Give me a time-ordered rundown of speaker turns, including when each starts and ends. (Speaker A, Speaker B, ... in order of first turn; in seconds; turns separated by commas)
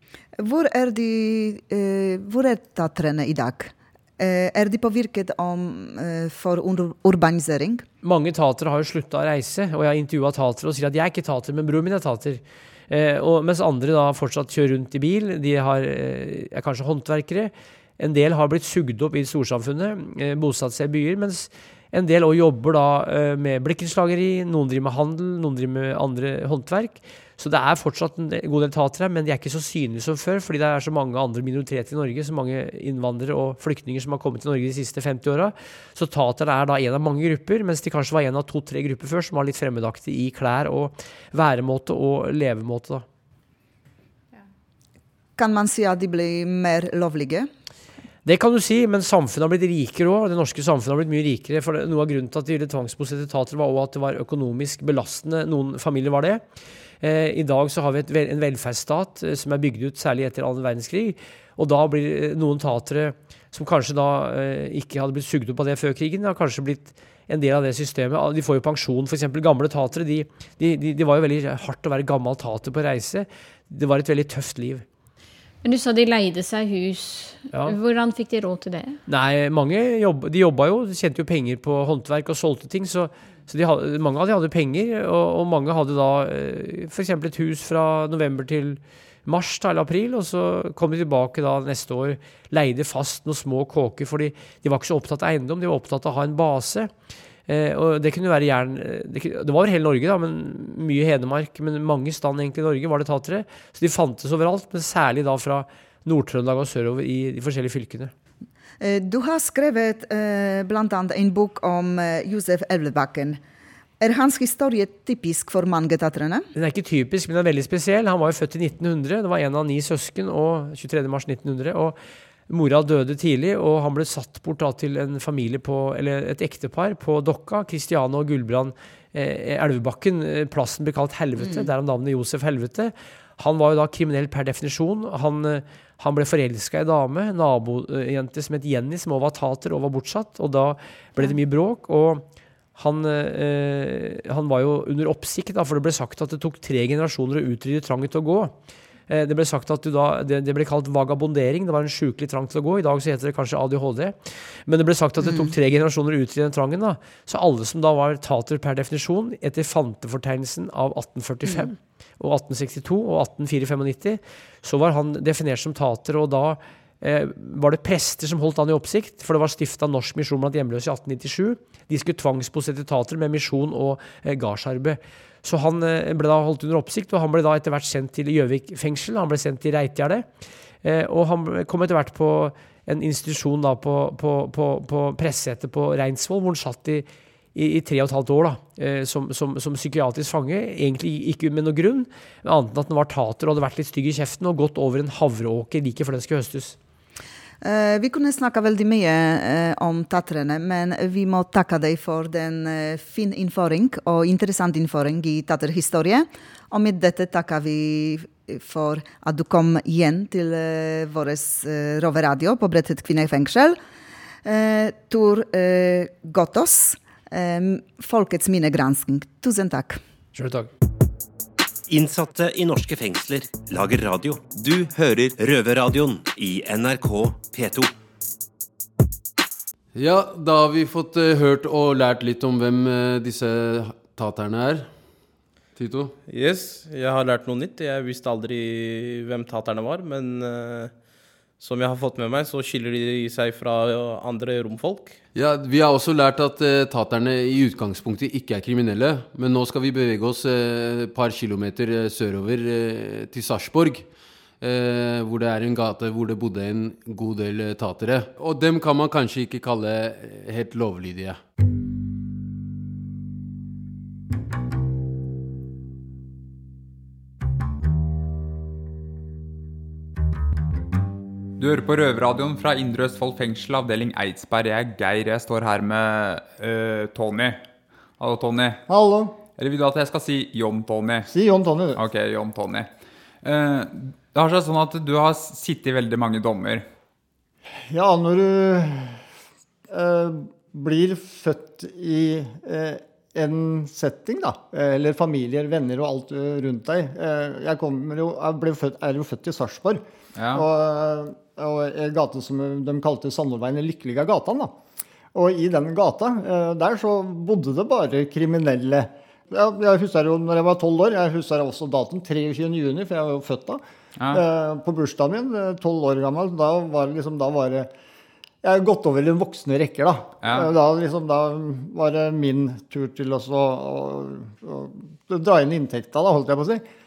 Speaker A: 0.4-7.8, Speaker B: 8.0-43.0, Speaker A: 45.4-47.5, Speaker B: 48.2-56.4, Speaker B: 57.0-74.8, Speaker C: 75.6-79.0, Speaker B: 79.1-96.9, Speaker B: 97.5-108.1, Speaker A: 108.8-113.4, Speaker A: 114.0-116.5, Speaker B: 116.5-122.0, Speaker B: 122.5-148.5, Speaker A: 131.4-131.7, Speaker B: 149.1-180.2, Speaker A: 155.2-155.5, Speaker B: 180.8-196.8, Speaker A: 197.6-213.8, Speaker A: 214.4-220.0, Speaker B: 220.3-220.7, Speaker D: 221.9-227.9, Speaker E: 229.9-234.9, Speaker E: 235.8-236.1, Speaker F: 236.3-241.0, Speaker F: 241.6-245.2, Speaker E: 245.3-254.1, Speaker E: 254.6-261.4, Speaker G: 271.6-277.6, Speaker G: 278.2-278.8, Speaker H: 278.9-279.4, Speaker G: 279.6-281.3, Speaker H: 281.3-282.0, Speaker G: 281.9-282.9, Speaker G: 283.4-286.9, Speaker H: 287.9-289.2, Speaker H: 289.9-304.7, Speaker G: 300.4-300.6, Speaker H: 305.3-317.9, Speaker G: 314.2-314.4, Speaker H: 318.6-326.8, Speaker G: 320.4-320.7